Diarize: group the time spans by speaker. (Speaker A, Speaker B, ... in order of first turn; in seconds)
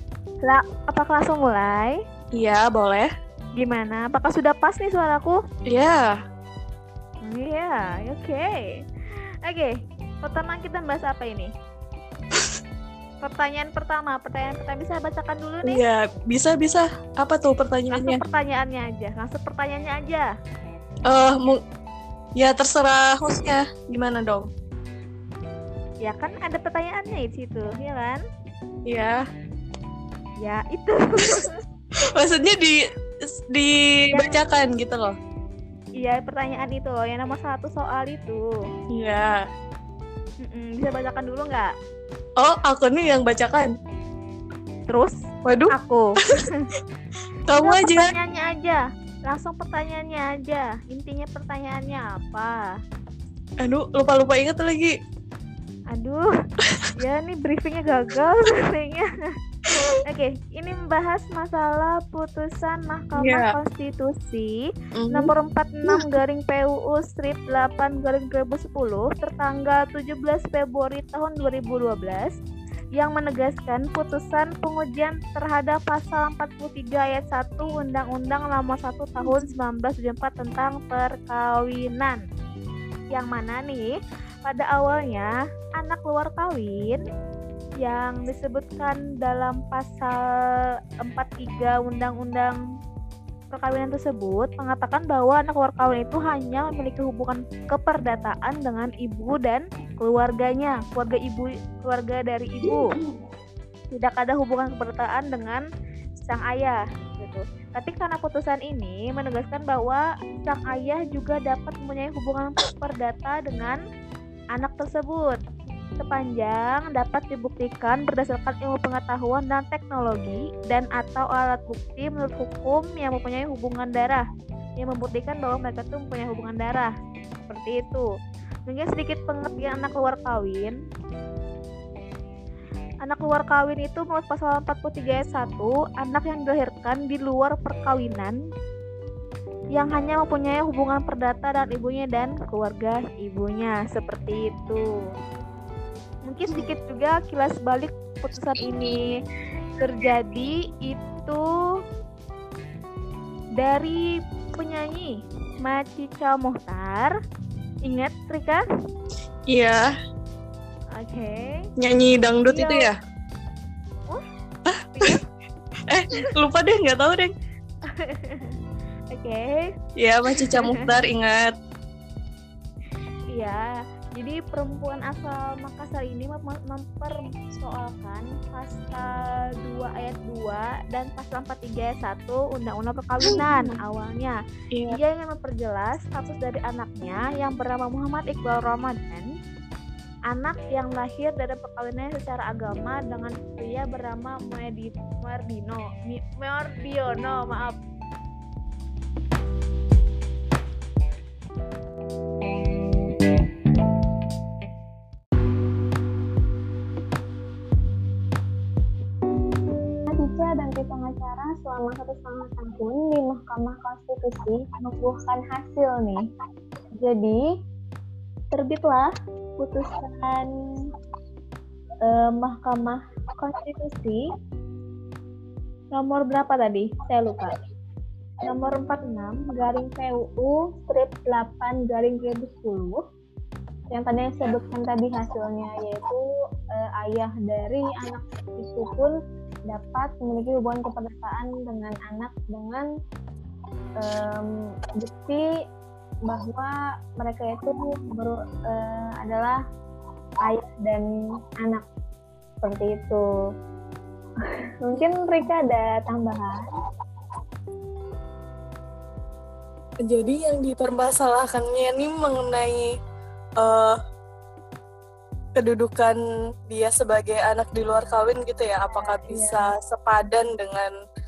Speaker A: 0.4-2.0, 3.6-5.4, 7.2-11.5, 13.2-15.8, 17.9-20.3, 26.0-28.2, 30.4-31.6, 34.1-34.4, 36.0-38.4, 40.4-41.7, 44.9-45.1, 45.7-46.7, 47.5-52.6, 55.9-56.3, 57.0-59.1, 60.0-64.6, 65.1-72.3, 73.0-82.2, 83.1-87.0, 87.8-90.2, 91.0-92.6, 93.5-103.0, 103.9-105.6, 106.2-113.8, 114.5-115.4, 116.0-124.2, 124.8-126.9, 127.5-128.1, 128.7-130.8, 133.1-138.4, 139.8-144.9, 146.3-149.1, 149.8-151.5, 153.6-154.0, 154.6-157.1, 157.9-158.6, 161.0-161.7, 162.5-162.9, 164.9-165.2, 167.8-168.6, 169.1-169.7, 170.3-171.0, 173.3-184.4, 184.9-189.3, 190.3-197.8
Speaker B: 2.4-3.1, 5.7-6.2, 15.6-18.2, 21.1-21.6, 22.4-24.5, 28.9-29.2, 32.1-32.8, 33.5-35.1, 38.9-39.5, 42.4-43.7, 45.5-45.8, 47.5-48.1, 53.6-54.9, 59.7-60.0, 63.2-63.5, 65.0-65.3, 65.9-66.2, 159.5-159.8, 161.8-162.9, 164.7-165.2, 165.9-167.3, 170.0-171.6, 183.2-183.8, 260.1-262.9, 263.6-264.0, 265.6-266.2, 266.7-270.9
Speaker C: 210.1-216.2, 217.0-217.4, 218.5-220.5, 222.0-224.2, 226.0-227.6, 228.4-233.0, 233.9-236.2, 236.7-239.1, 239.7-242.9, 244.0-245.5, 246.3-249.6, 250.4-251.1, 252.6-253.2, 254.8-256.7, 268.9-269.6